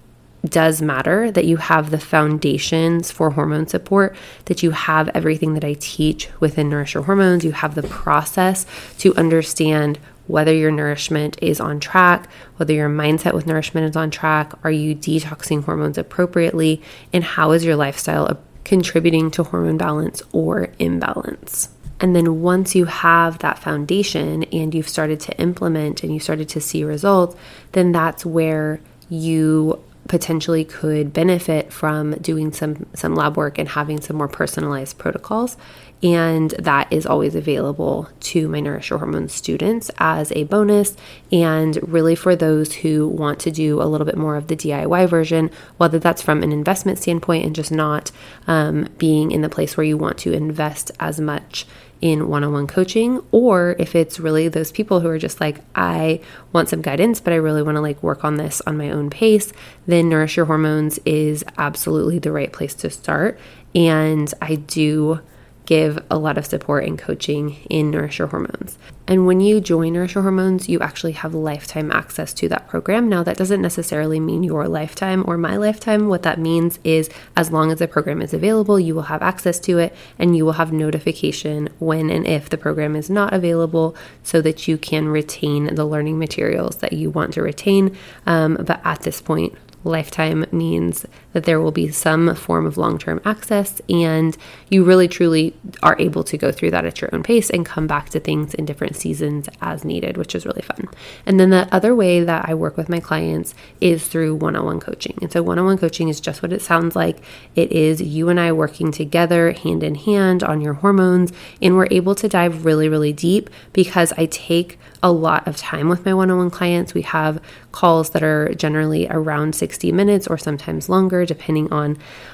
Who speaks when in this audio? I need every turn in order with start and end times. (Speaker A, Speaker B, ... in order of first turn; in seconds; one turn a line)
Speaker A: 0.5-122.0